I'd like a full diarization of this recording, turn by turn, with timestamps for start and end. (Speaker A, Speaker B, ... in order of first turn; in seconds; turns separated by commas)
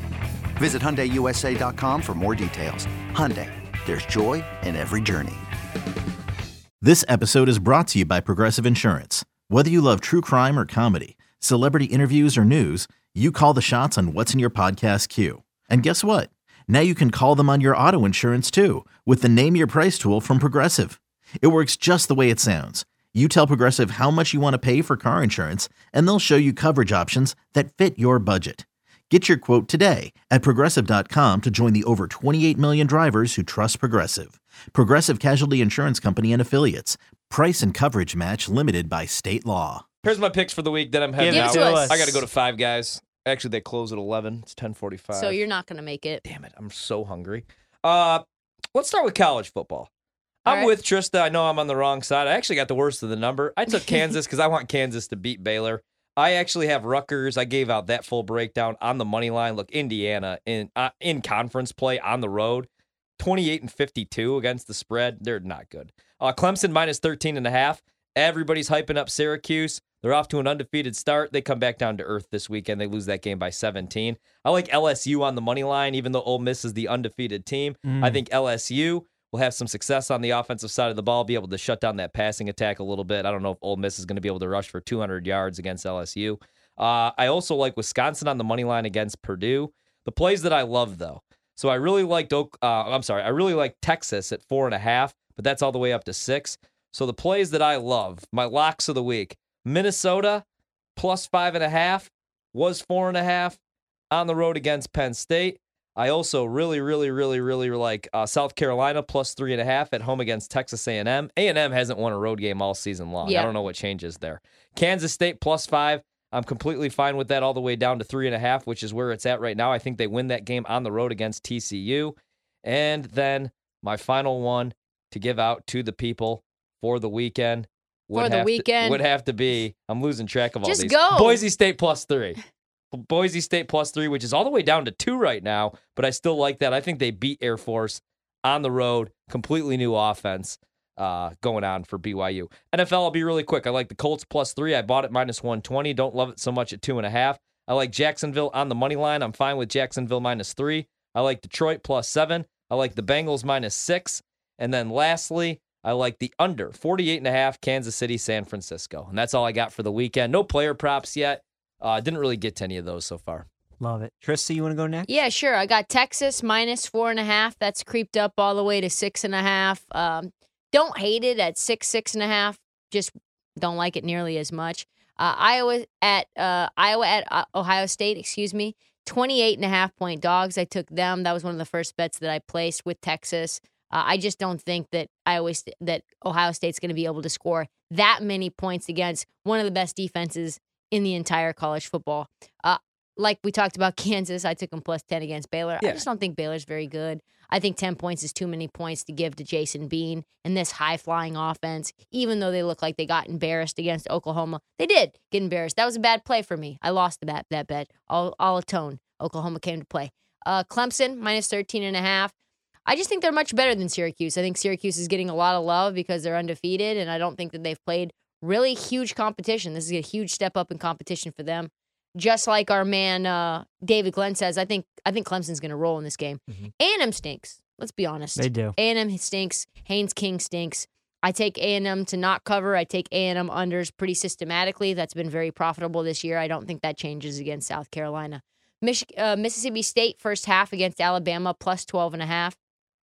Speaker A: 0.6-5.5, Speaker B: 6.8-39.8, Speaker C: 40.0-45.4, Speaker D: 41.2-42.2, Speaker E: 41.3-42.0, Speaker E: 45.1-46.2, Speaker C: 46.2-49.9, Speaker C: 50.4-100.4, Speaker E: 50.5-50.7, Speaker D: 77.8-78.2, Speaker C: 101.0-103.6, Speaker C: 104.1-132.4, Speaker E: 113.2-113.5, Speaker E: 128.2-129.0, Speaker E: 130.6-131.4, Speaker C: 132.9-163.5, Speaker D: 163.8-165.1, Speaker E: 165.1-212.3, Speaker E: 212.9-242.6, Speaker D: 228.4-228.8